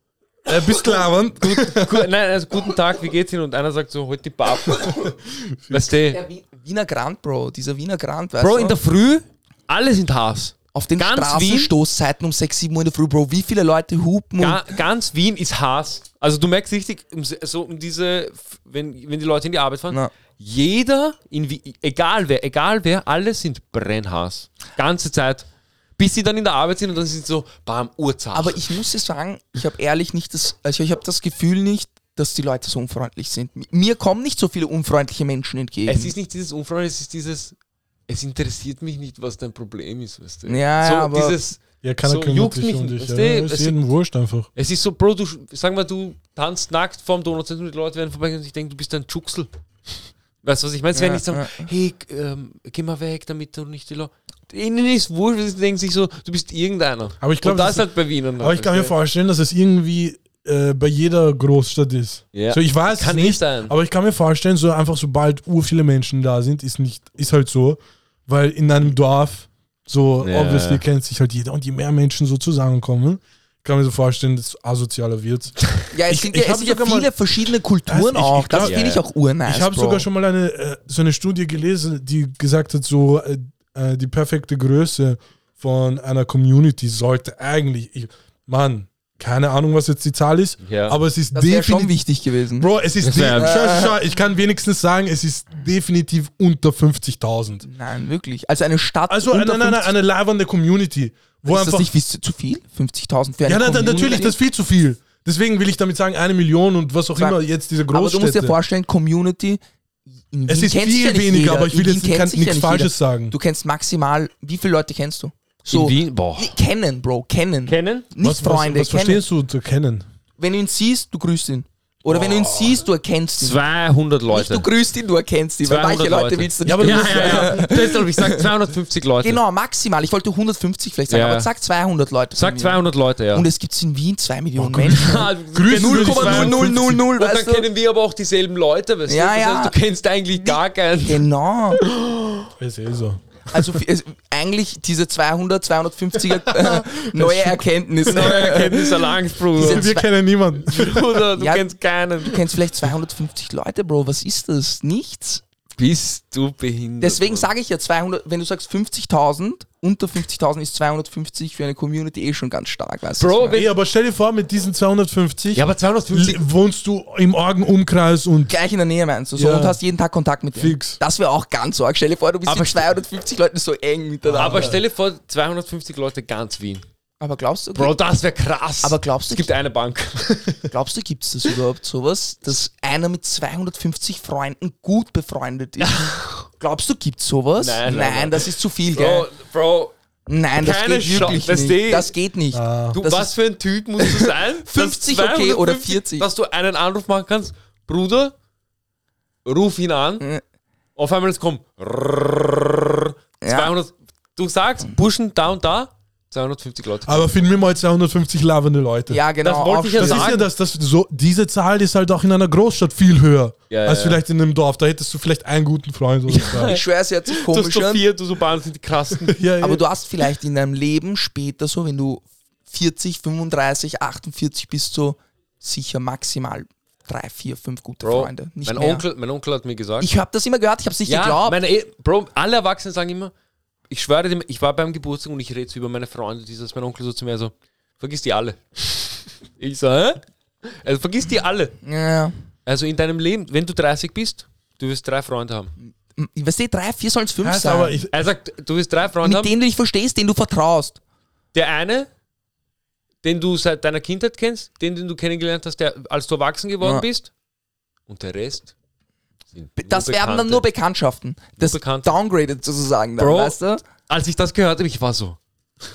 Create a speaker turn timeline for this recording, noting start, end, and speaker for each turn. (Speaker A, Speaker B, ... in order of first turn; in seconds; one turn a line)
Speaker A: 0.5-2.1
Speaker B: 0.5-5.1
Speaker A: 4.8-5.9
Speaker B: 5.7-6.2
Speaker C: 6.0-8.8
Speaker B: 8.4-11.7
Speaker C: 10.7-14.7
Speaker B: 14.4-25.4
Speaker B: 26.0-28.7
Speaker C: 28.3-36.1
Speaker B: 35.9-37.5
Speaker B: 38.1-43.8
Speaker C: 40.4-41.4
Speaker A: 41.8-44.5
Speaker B: 44.5-49.5
Speaker B: 50.4-58.9
Speaker C: 50.9-51.7
Speaker A: 57.2-57.9
Speaker A: 58.4-77.1
Speaker B: 62.3-63.7
Speaker B: 70.2-70.8
Speaker C: 75.9-80.0
Speaker A: 77.9-78.8
Speaker B: 78.6-79.0
Speaker A: 79.5-91.9
Speaker B: 90.6-91.0
Speaker C: 91.3-92.7
Speaker A: 92.6-97.6
Speaker B: 93.0-93.6
Speaker C: 93.3-94.0
Speaker C: 97.6-99.9
Speaker A: 99.1-101.9
Speaker C: 101.5-104.3
Speaker A: 103.4-108.5
Speaker C: 107.1-109.6
Speaker C: 110.3-119.2
Speaker A: 110.5-113.3
Speaker B: 115.7-116.5
Speaker B: 117.7-118.1
Speaker A: 118.2-120.0
Speaker C: 120.4-123.6
Speaker A: 122.1-122.8
Speaker B: 123.4-124.7
Speaker C: 124.3-128.5
Speaker B: 125.6-129.4
Speaker A: 126.6-127.6
Speaker C: 129.2-132.8
Speaker B: 131.1-131.5
Speaker B: 132.3-133.5
Speaker C: 133.3-137.7
Speaker A: 134.6-137.0
Speaker B: 134.9-141.2
Speaker C: 139.1-139.8
Speaker C: 140.4-141.8
Speaker B: 141.8-142.5
Speaker A: 142.6-143.2
Speaker C: 143.5-150.1
Speaker A: 146.3-147.6
Speaker B: 148.1-149.9
Speaker A: 149.6-151.3
Speaker B: 150.6-152.4
Speaker C: 151.3-151.6
Speaker C: 152.2-155.4
Speaker B: 155.8-157.5
Speaker C: 157.0-163.6
Speaker B: 163.2-163.7
Speaker A: 163.5-168.5
Speaker B: 165.5-166.4
Speaker C: 168.5-174.8
Speaker A: 169.3-169.8
Speaker A: 170.6-171.0
Speaker B: 172.5-172.9
Speaker A: 174.2-174.8
Speaker B: 174.4-176.8
Speaker C: 177.2-177.9
Speaker B: 177.7-180.7
Speaker C: 178.8-179.5
Speaker C: 180.7-189.3
Speaker B: 185.8-186.5
Speaker B: 187.6-189.9
Speaker C: 190.3-193.3
Speaker B: 190.6-192.1
Speaker A: 191.1-191.4
Speaker A: 192.5-193.0
Speaker B: 192.9-198.3
Speaker C: 194.0-196.3
Speaker B: 199.4-200.2
Speaker B: 200.9-207.3
Speaker C: 203.4-203.7
Speaker A: 207.1-209.2
Speaker C: 209.1-210.3
Speaker B: 209.4-210.4
Speaker A: 210.0-216.8
Speaker B: 213.7-214.2
Speaker B: 216.3-219.4
Speaker C: 216.7-218.0
Speaker A: 219.2-219.8
Speaker C: 219.6-229.0
Speaker B: 228.0-230.1
Speaker C: 230.0-231.6
Speaker B: 231.1-233.3
Speaker B: 233.9-241.8
Speaker C: 241.8-242.3
Speaker B: 242.7-245.7
Speaker C: 246.2-248.0
Speaker A: 247.4-248.1
Speaker B: 248.1-249.5
Speaker C: 249.2-251.0
Speaker B: 251.5-252.1
Speaker B: 253.2-257.3
Speaker B: 258.1-258.7
Speaker B: 259.5-260.6
Speaker C: 259.8-263.8
Speaker B: 261.6-262.1
Speaker B: 263.2-265.4